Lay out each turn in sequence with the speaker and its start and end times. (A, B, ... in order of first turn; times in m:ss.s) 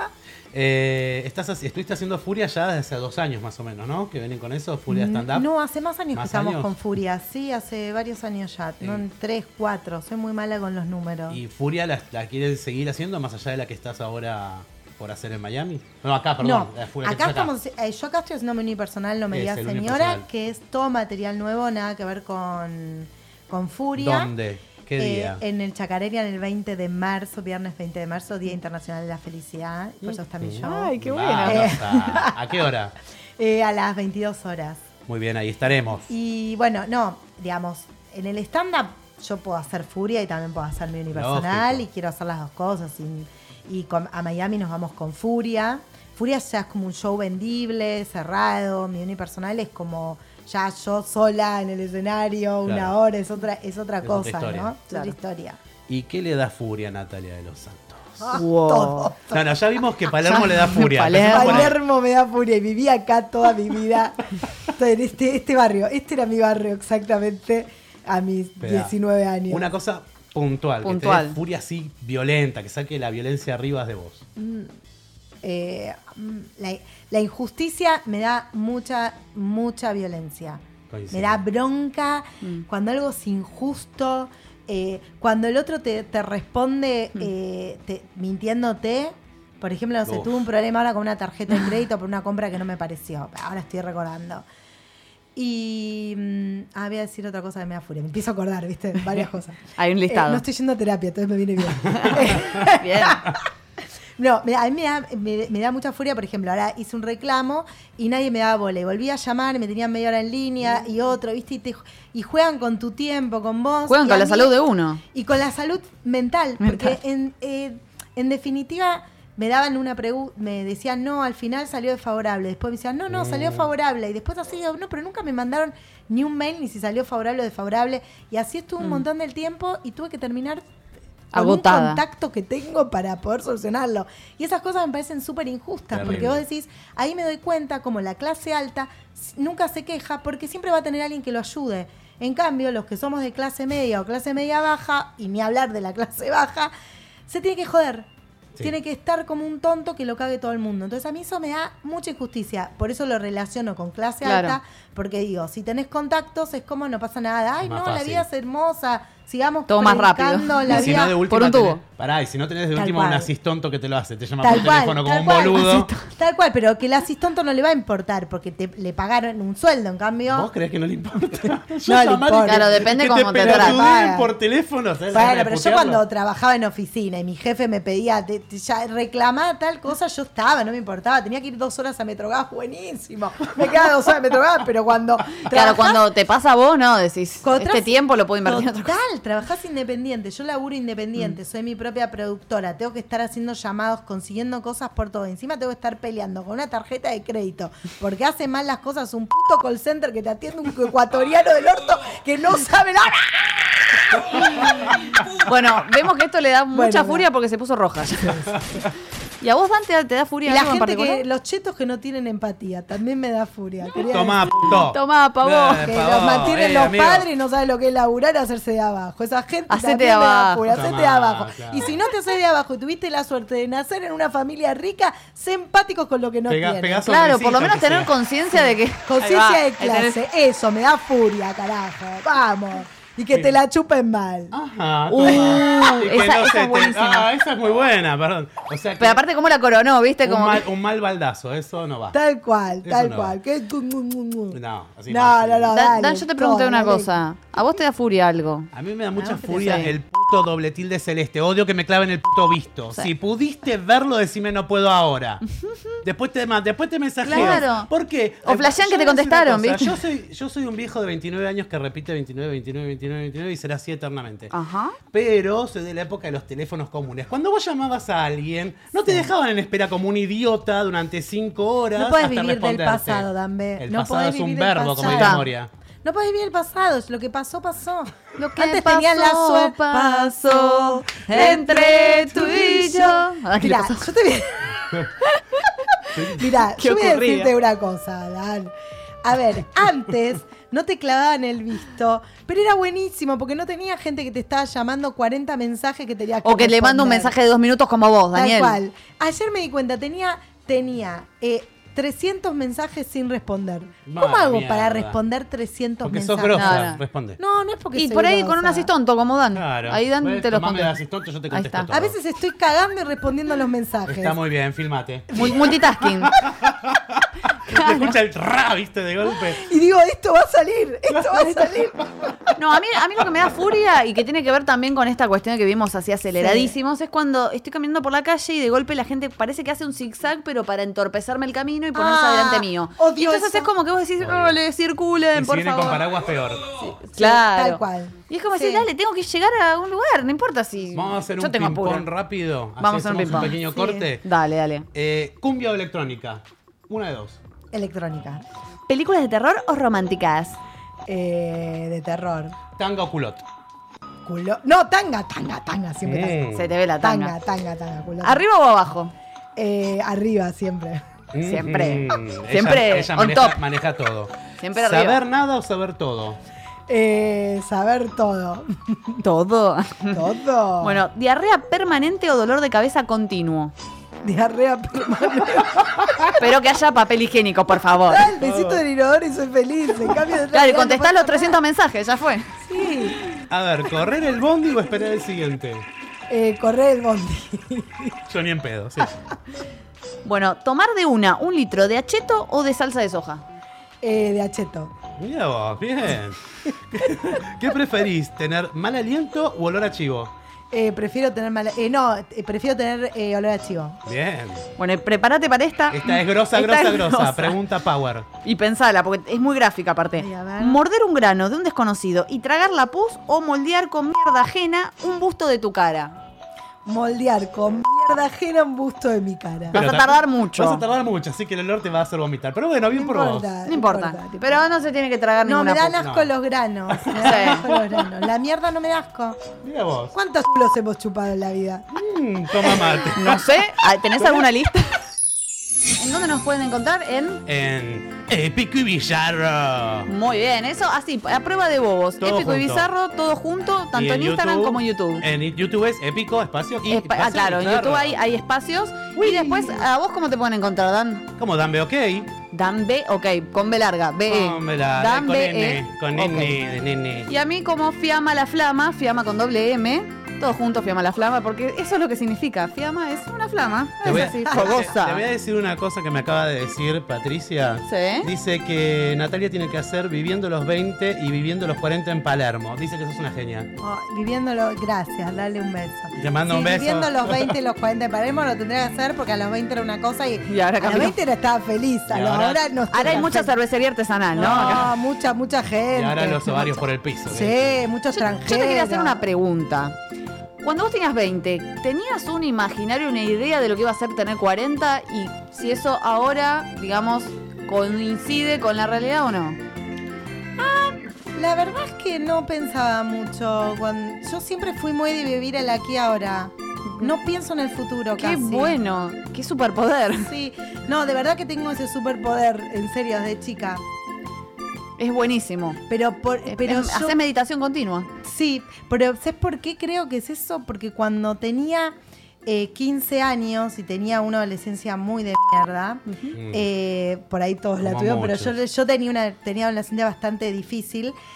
0:00.5-0:05.5 A
0:04.9-0:11.4 B
0:06.1-0:06.7 A
0:11.3-0:17.5 A
0:16.4-0:24.3 B
0:19.3-0:20.2 A
0:24.0-0:25.4 A
0:25.0-0:32.4 B
0:30.0-0:32.9 A
0:30.6-0:31.9 C
0:33.4-0:34.9 B
0:35.1-0:36.1 A
0:36.1-0:55.6 B
0:41.1-0:41.8 A
0:52.6-0:52.9 A
0:54.0-0:54.7 A
0:55.9-0:58.4 A
0:58.2-0:59.4 B
0:58.3-0:59.1 C
0:59.3-1:01.8 A
1:00.2-1:01.7 C
1:01.2-1:09.7 B
1:08.6-1:08.9 A
1:09.5-1:14.2 A
1:10.8-1:11.4 C
1:14.4-1:14.7 B
1:15.4-1:34.4 B
1:20.9-1:21.4 A
1:30.0-1:30.4 A
1:35.3-1:43.4 B
1:39.8-1:40.4 C
1:41.9-1:43.3 C
1:44.2-1:54.5 B
1:53.9-1:55.0 C
1:55.1-2:10.6 B
1:56.6-1:57.0 C
2:03.1-2:03.6 A
2:11.3-2:12.0 C
2:11.3-2:26.7 B
2:15.9-2:16.4 A
2:27.3-2:28.1 B
2:28.6-2:41.2 B
2:34.2-2:34.6 C
2:37.6-2:38.2 A
2:39.7-2:41.8 C
2:40.7-2:45.9 A
2:42.7-2:43.3 B
2:44.4-2:50.5 B
2:50.3-2:56.0 A
2:51.8-2:52.8 B
2:52.4-2:53.8 C
2:53.4-2:54.3 B
2:55.1-3:06.1 B
3:05.4-3:08.9 C
3:07.4-3:24.9 B
3:25.4-3:28.6 C
3:26.7-3:27.3 B
3:29.4-3:31.2 C
3:30.4-3:34.8 B
3:34.0-3:37.3 A
3:34.8-3:35.9 C
3:35.8-3:47.1 B
3:39.7-3:40.6 C
3:40.7-3:42.0 A
3:46.5-3:48.1 A
3:47.0-3:50.2 C
3:49.0-3:54.5 B
3:54.5-3:59.2 A
3:55.1-3:57.3 C
3:59.0-4:00.6 C
4:00.2-4:02.2 A
4:02.1-4:07.1 B
4:02.8-4:03.4 A
4:04.5-4:05.7 A
4:05.7-4:08.7 C
4:08.7-4:15.4 A
4:09.2-4:09.9 B
4:09.6-4:09.9 C
4:15.5-4:16.0 C
4:16.0-4:24.5 A
4:17.2-4:17.9 C
4:17.3-4:17.7 B
4:18.4-4:20.0 C
4:24.5-4:25.0 C
4:25.1-4:35.7 A
4:29.0-4:29.3 B
4:31.9-4:35.5 B
4:35.0-4:35.4 C
4:36.0-4:45.0 B
4:38.4-4:44.1 C
4:45.2-4:45.7 C
4:46.1-4:46.5 A
4:46.3-4:57.4 B
4:46.7-4:47.5 C
4:56.4-4:58.8 C
4:58.3-5:08.9 B
5:04.1-5:05.2 A
5:06.0-5:07.4 A
5:06.5-5:07.0 C
5:07.9-5:11.0 C
5:09.5-5:12.2 A
5:11.5-5:11.9 C
5:11.9-5:14.4 B
5:14.0-5:15.7 A
5:15.3-5:16.4 C
5:15.3-5:15.6 B
5:16.2-5:19.7 A
5:17.7-5:18.1 C
5:19.6-5:22.0 B
5:21.1-5:21.9 A
5:22.6-5:36.1 C
5:26.4-5:26.7 B
5:31.9-5:33.7 B
5:34.2-5:34.6 A
5:35.3-5:36.7 A
5:36.8-5:42.1 C
5:37.1-5:38.9 B
5:40.9-5:44.2 A
5:42.8-5:43.6 C
5:43.3-5:44.1 B
5:44.2-5:44.8 C
5:44.9-5:47.4 A
5:47.7-5:48.4 B
5:48.9-5:50.6 C
5:51.1-5:52.6 B
5:52.8-5:53.4 A
5:54.2-5:58.4 B
5:56.0-5:56.7 A
5:56.5-5:57.3 C
5:58.2-5:59.1 C
5:59.6-6:01.1 B
6:01.3-6:06.4 A
6:01.4-6:03.6 C
6:04.6-6:05.2 C
6:06.9-6:09.2 B
6:09.2-6:10.3 C
6:10.1-6:11.0 B
6:10.8-6:13.7 C
6:14.2-6:16.2 B
6:16.3-6:18.3 C
6:18.1-6:21.6 B
6:18.4-6:18.8 A
6:20.5-6:22.5 C
6:22.6-6:23.2 B
6:23.5-6:25.8 A
6:26.3-6:28.2 B
6:28.3-6:29.2 A
6:30.2-6:33.4 C
6:34.0-6:34.9 B
6:35.2-6:40.3 A
6:40.7-6:44.0 B
6:44.0-6:44.7 A
6:44.8-6:47.6 C
6:45.9-6:48.3 A
6:48.4-6:56.2 C
6:50.2-6:50.8 B
6:56.8-6:59.8 B
6:59.7-7:00.8 C
6:59.7-7:03.5 A
7:02.9-7:04.6 B
7:03.6-7:06.0 C
7:05.4-7:09.4 B
7:06.0-7:06.3 A
7:06.9-7:08.1 A
7:07.2-7:07.6 C
7:09.6-7:10.1 A
7:10.1-7:11.9 B
7:11.9-7:13.6 A
7:13.1-7:15.0 C
7:16.0-7:17.4 C
7:17.4-7:20.1 A
7:20.1-7:25.2 C
7:22.2-7:22.9 A
7:23.9-7:28.2 A
7:26.9-7:31.2 C
7:29.2-7:29.8 A
7:31.4-7:32.3 A
7:32.5-7:36.6 C
7:34.3-7:37.3 A
7:37.3-7:45.2 C
7:44.0-7:53.7 A
7:44.1-7:44.7 B
7:47.8-7:48.3 C
7:53.8-8:03.5 B
7:56.2-7:57.5 A
8:00.4-8:01.2 C
8:02.1-8:03.2 A
8:02.9-8:04.9 C
8:04.3-8:09.2 B
8:04.4-8:04.9 A
8:05.9-8:07.8 A
8:08.1-8:10.0 C
8:10.6-8:19.6 C
8:20.6-8:28.8 B
8:28.2-8:30.3 C
8:30.2-8:33.8 B
8:35.0-8:35.8 C
8:35.9-8:37.2 B
8:36.4-8:38.1 C
8:38.2-8:41.9 B
8:42.4-8:51.1 B
8:46.3-8:46.7 A
8:47.8-8:48.5 A